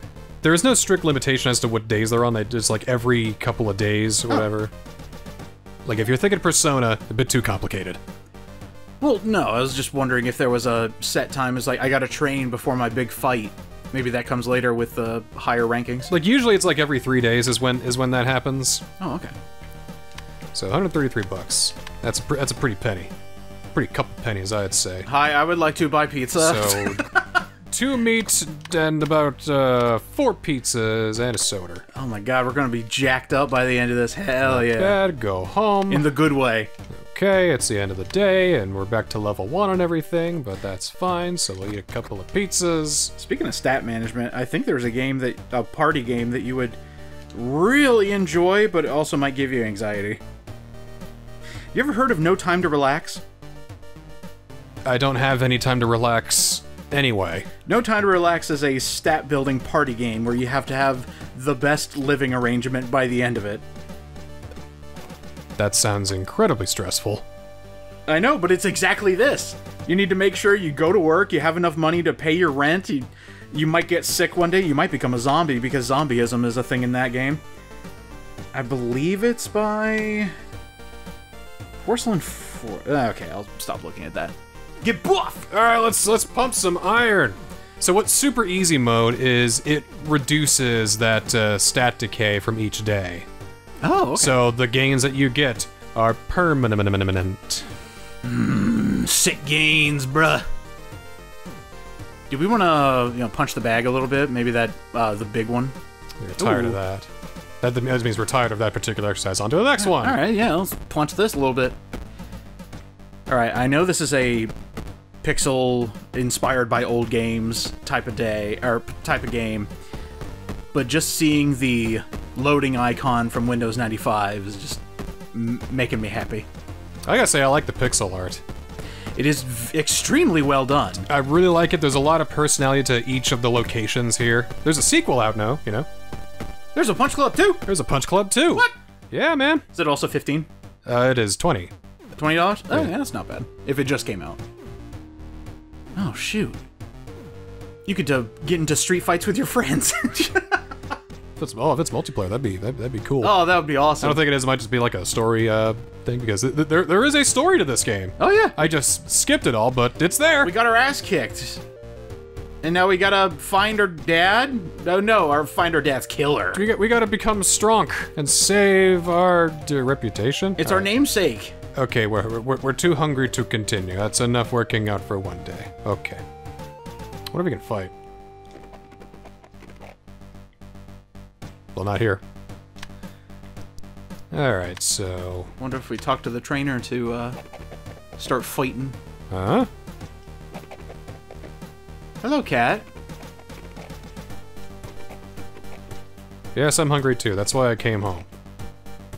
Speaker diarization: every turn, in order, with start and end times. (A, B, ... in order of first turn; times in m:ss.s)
0:00.4-0:04.7 A
0:05.8-0:08.0 A
0:09.0-0:16.1 B
0:16.1-0:18.8 A
0:19.0-0:19.3 B
0:20.5-0:23.1 A
0:23.7-0:25.1 A
0:25.1-0:27.4 B
0:26.4-0:27.0 A
0:27.7-0:31.8 A
0:31.9-0:35.0 B
0:34.4-0:36.1 A
0:35.9-0:36.7 B
0:36.9-0:43.1 A
0:43.2-0:46.8 B
0:47.3-0:50.2 B
0:51.7-0:53.2 B
0:54.8-0:57.5 A
0:57.7-1:03.6 B
1:05.6-1:07.2 A
1:08.1-1:17.4 B
1:18.5-1:20.3 B
1:21.8-1:25.5 B
1:25.5-1:33.3 A
1:33.8-1:34.4 B
1:34.2-1:37.7 A
1:38.2-1:40.5 B
1:42.3-1:45.8 B
1:46.2-1:47.1 A
1:46.4-1:46.8 B
1:47.6-1:50.2 A
1:49.8-1:51.8 B
1:53.3-1:54.5 B
1:55.2-1:59.7 B
2:00.7-2:04.8 B
2:05.3-2:06.5 B
2:07.1-2:08.4 A
2:09.2-2:11.1 B
2:11.0-2:15.9 A
2:16.8-2:17.6 B
2:17.7-2:19.6 A
2:19.7-2:20.5 B
2:20.8-2:21.7 A
2:22.2-2:24.4 B
2:26.0-2:26.6 B
2:27.9-2:30.6 B
2:31.4-2:33.4 A
2:33.2-2:34.2 B
2:34.0-2:40.5 A
2:38.2-2:38.6 B
2:40.4-2:41.6 B
2:42.6-2:46.6 B
2:46.5-2:50.9 A
2:50.6-2:51.6 B
2:51.7-2:56.2 A
2:57.3-2:57.9 A
3:01.8-3:02.2 A
3:04.3-3:05.5 A
3:05.6-3:07.4 B
3:08.2-3:09.0 B
3:09.3-3:09.7 A
3:12.2-3:12.8 B
3:16.6-3:18.3 A